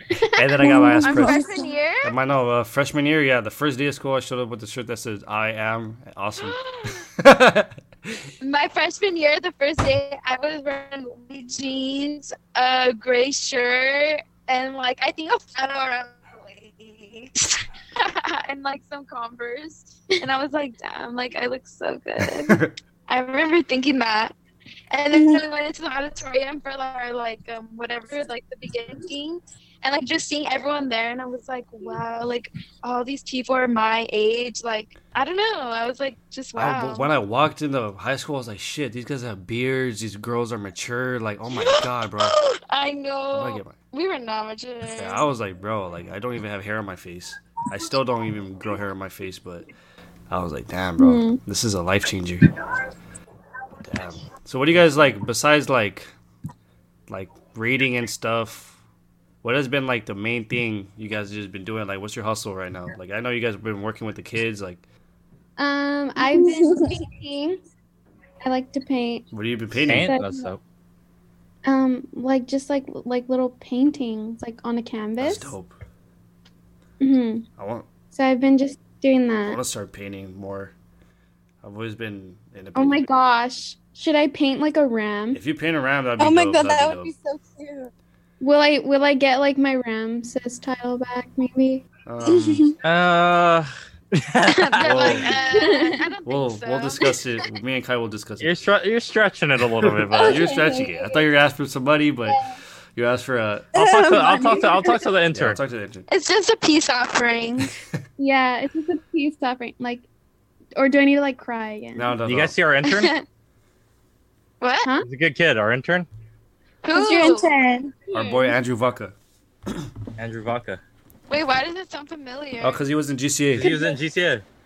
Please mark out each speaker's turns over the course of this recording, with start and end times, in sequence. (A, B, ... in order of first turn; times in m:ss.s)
0:00.3-0:01.5 A
0:00.5-0:01.6 B
0:01.0-0:02.1 C
0:02.0-0:08.2 A
0:06.4-0:07.1 C
0:08.4-0:24.3 C
0:22.2-0:22.8 A
0:24.9-0:37.1 C
0:25.1-0:25.4 D
0:36.6-0:42.3 A
0:41.5-0:45.3 C
0:43.3-0:43.8 A
0:45.0-0:49.6 A
0:50.3-0:52.5 A
0:51.0-0:51.4 B
0:53.8-0:56.1 A
0:57.1-0:58.8 A
0:59.4-1:04.8 A
1:05.6-1:07.6 B
1:06.2-1:06.9 D
1:08.4-1:09.3 B
1:09.3-1:10.1 A
1:09.8-1:10.6 E
1:10.0-1:10.5 B
1:11.6-1:15.5 B
1:15.2-1:15.7 A
1:17.0-1:17.4 B
1:17.6-1:17.9 A
1:18.1-1:19.6 B
1:19.4-1:20.7 A
1:21.6-1:23.0 A
1:22.8-1:25.4 B
1:25.3-1:27.1 A
1:26.2-1:27.9 D
1:28.4-1:31.8 B
1:32.0-1:32.7 A
1:32.2-1:32.7 D
1:32.8-1:35.2 E
1:34.5-1:37.0 C
1:34.8-1:35.3 A
1:35.2-1:36.0 B
1:36.2-1:38.5 A
1:38.4-1:40.4 E
1:39.8-1:43.7 A
1:40.2-1:41.3 B
1:42.3-1:42.6 B
1:43.7-1:45.0 D
1:43.7-1:45.6 E
1:45.3-1:46.1 A
1:46.1-1:47.7 C
1:48.2-1:50.0 B
1:50.8-1:52.1 B
1:52.0-1:52.6 A
1:52.2-1:53.1 E
1:52.8-1:53.2 C
1:54.6-1:54.9 C
1:55.0-1:56.1 E
1:56.8-1:57.5 C
1:56.9-1:58.0 D
1:58.1-1:59.1 A
1:58.1-1:58.5 B
2:00.2-2:00.8 E
2:01.3-2:02.8 C
2:02.6-2:03.8 A
2:03.6-2:04.4 E
2:03.6-2:04.0 B